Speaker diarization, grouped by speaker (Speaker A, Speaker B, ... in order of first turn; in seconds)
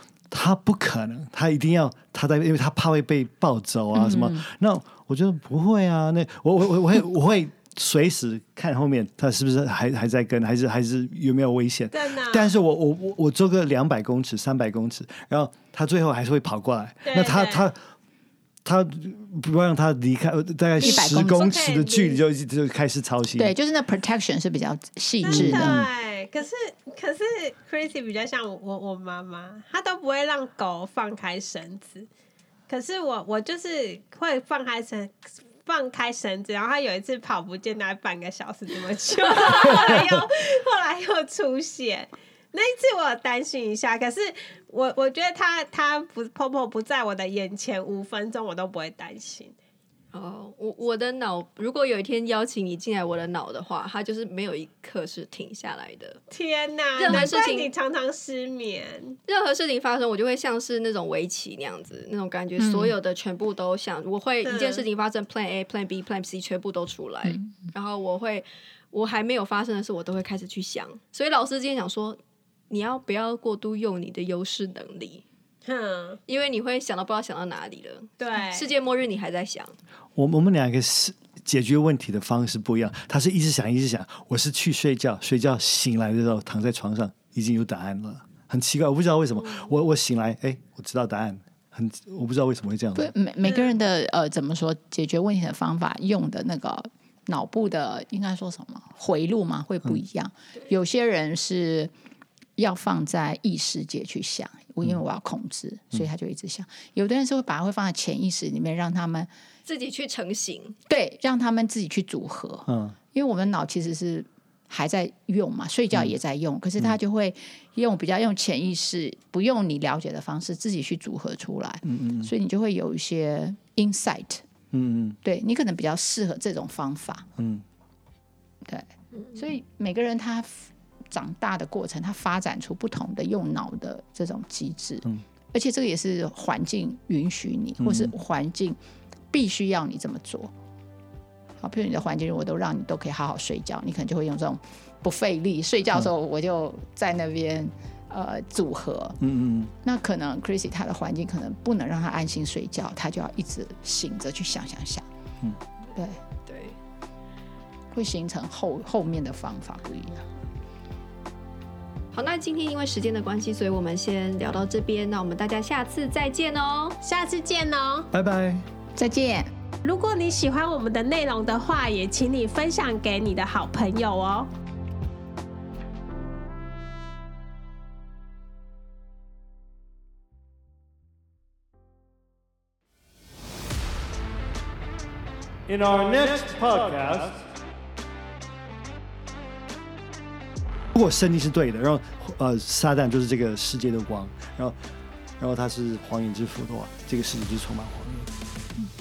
Speaker A: 0.3-17.8, 18.6-23.5, 25.3-25.9, 80.2-93.1, 112.7-113.0, 121.8-122.3, 124.7-125.2, 127.4-127.6, 137.8-138.1, 149.2-149.7, 168.1-168.6, 185.7-187.4, 190.9-194.8, 195.4-198.3
Speaker B: 3.9-4.5, 20.8-21.5, 23.4-25.8, 57.0-57.3, 62.6-63.0, 93.0-101.9, 102.6-109.3, 110.9-124.4, 125.2-127.3, 128.6-138.8, 139.3-140.5, 141.6-149.2, 149.8-155.1, 155.9-156.2, 157.9-160.3, 168.9-169.5
Speaker C: 11.9-12.5, 17.1-17.7, 20.8-22.2, 25.2-32.1, 32.7-49.5, 56.3-59.2, 64.4-64.8, 75.6-76.2, 78.2-78.7, 167.0-168.1, 169.8-174.5
Speaker D: 50.1-56.2, 57.0-57.7, 59.3-72.2, 72.7-75.2, 76.3-79.8, 89.4-89.7, 109.7-110.8, 156.4-156.8, 162.1-167.0